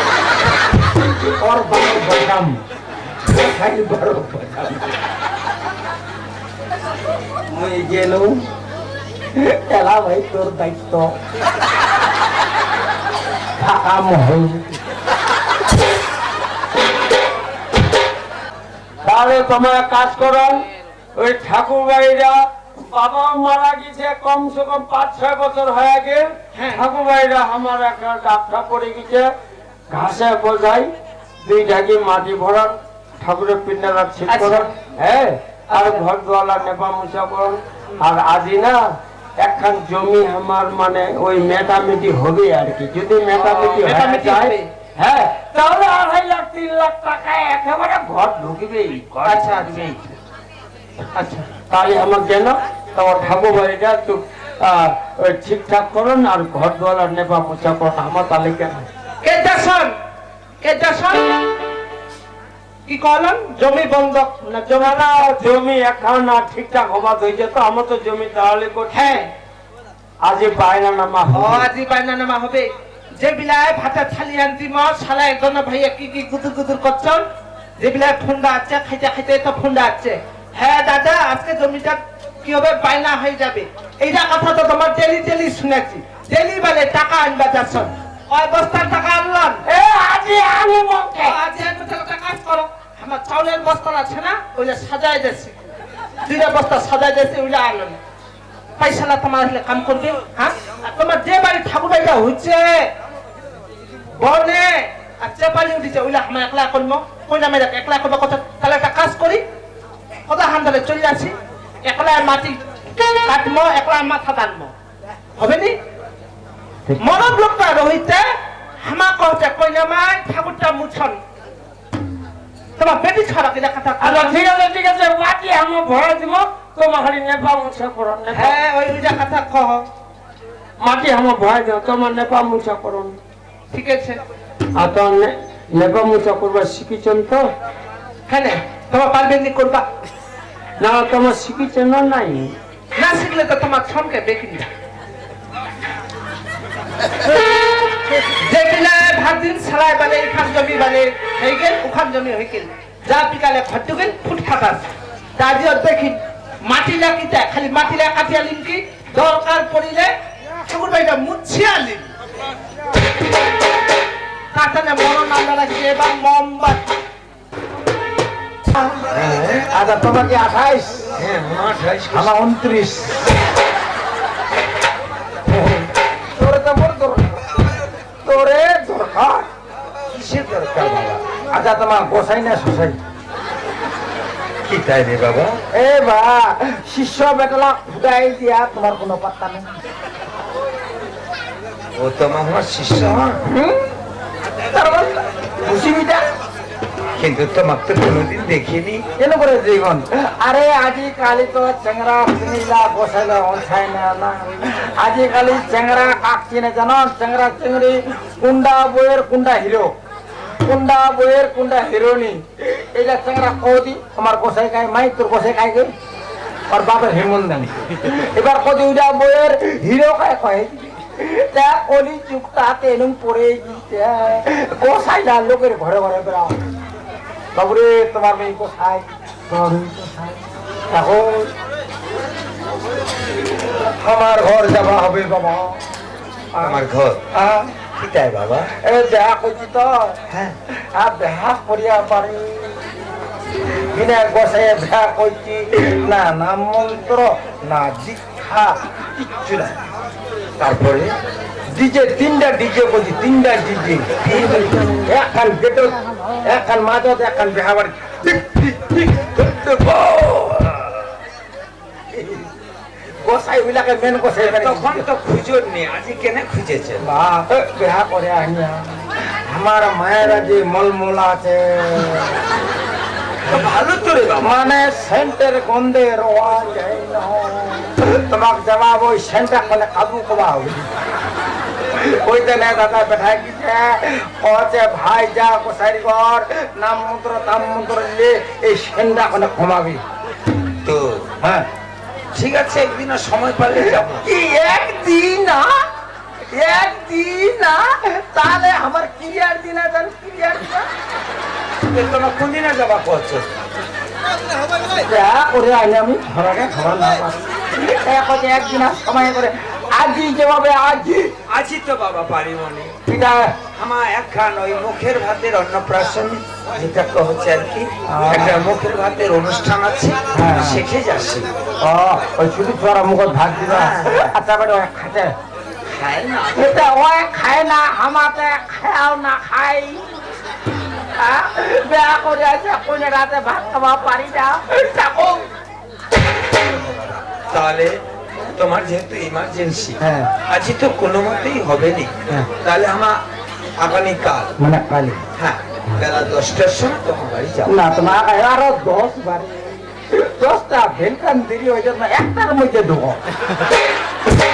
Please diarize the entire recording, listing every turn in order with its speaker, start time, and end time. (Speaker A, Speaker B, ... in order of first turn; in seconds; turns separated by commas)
Speaker A: 1.2-2.6, Speaker A: 3.3-4.9, Speaker A: 7.5-8.4, Speaker A: 9.4-11.1, Speaker A: 13.6-14.6, Speaker B: 19.0-20.6, Speaker B: 21.2-29.3, Speaker C: 26.6-26.8, Speaker B: 29.9-30.9, Speaker B: 31.4-38.8, Speaker C: 34.3-34.7, Speaker C: 35.7-36.0, Speaker B: 39.4-50.0, Speaker C: 43.3-44.7, Speaker C: 49.2-50.1, Speaker C: 51.1-51.5, Speaker B: 51.7-58.9, Speaker C: 59.2-59.9, Speaker C: 60.6-61.5, Speaker C: 62.9-65.1, Speaker B: 64.7-69.2, Speaker C: 68.9-69.3, Speaker B: 70.2-71.7, Speaker C: 71.3-77.2, Speaker C: 77.8-89.6, Speaker B: 89.7-91.4, Speaker C: 91.2-95.6, Speaker C: 96.2-98.0, Speaker C: 98.8-102.8, Speaker C: 104.2-109.4, Speaker C: 110.3-112.6, Speaker C: 113.2-114.7, Speaker C: 115.4-115.8, Speaker B: 116.9-117.3, Speaker C: 117.0-118.2, Speaker C: 118.8-121.2, Speaker C: 122.8-124.4, Speaker B: 124.0-128.6, Speaker C: 128.3-129.9, Speaker B: 130.8-133.1, Speaker C: 133.7-134.2, Speaker B: 134.8-137.4, Speaker C: 138.3-139.8, Speaker B: 140.8-142.5, Speaker C: 143.0-144.7, Speaker C: 148.4-160.1, Speaker C: 160.7-162.1, Speaker C: 164.5-166.8, Speaker D: 169.1-169.7, Speaker A: 169.7-171.2, Speaker D: 171.2-172.3, Speaker A: 172.1-173.2, Speaker A: 175.5-175.8, Speaker A: 176.4-177.7, Speaker A: 178.2-179.5, Speaker D: 180.1-181.2, Speaker A: 181.5-183.0, Speaker D: 184.6-185.6, Speaker A: 185.7-189.8, Speaker D: 192.0-193.4, Speaker A: 193.5-193.8, Speaker A: 194.7-196.3, Speaker D: 197.2-199.0, Speaker A: 199.2-209.9, Speaker A: 210.6-215.9, Speaker A: 216.7-226.6, Speaker A: 227.5-231.5, Speaker A: 234.0-235.8, Speaker A: 236.6-236.8, Speaker D: 236.6-237.2, Speaker A: 237.3-237.7, Speaker D: 238.0-238.7, Speaker A: 238.8-240.2, Speaker A: 240.9-242.8, Speaker A: 243.9-249.8, Speaker D: 250.6-251.1, Speaker A: 251.7-261.0, Speaker D: 254.3-254.9, Speaker A: 262.1-262.5, Speaker A: 263.2-265.1, Speaker D: 264.4-267.0, Speaker A: 267.0-272.4, Speaker D: 273.4-274.5, Speaker A: 274.4-280.9, Speaker A: 282.0-290.0, Speaker D: 290.8-291.3, Speaker A: 291.4-291.7, Speaker D: 292.3-294.3, Speaker A: 293.8-295.7, Speaker A: 296.5-300.9, Speaker D: 301.9-303.6, Speaker A: 305.1-311.3, Speaker D: 311.5-312.9, Speaker A: 313.1-313.6, Speaker D: 313.7-321.5, Speaker A: 318.1-318.7, Speaker A: 320.3-320.9, Speaker A: 321.8-325.3, Speaker D: 323.6-324.4, Speaker D: 325.9-326.6, Speaker A: 326.5-330.0, Speaker A: 331.2-335.4, Speaker D: 336.5-337.9, Speaker D: 338.6-343.2, Speaker A: 340.0-340.3, Speaker D: 343.8-344.5, Speaker A: 344.6-345.2, Speaker D: 345.4-347.8, Speaker A: 347.7-353.2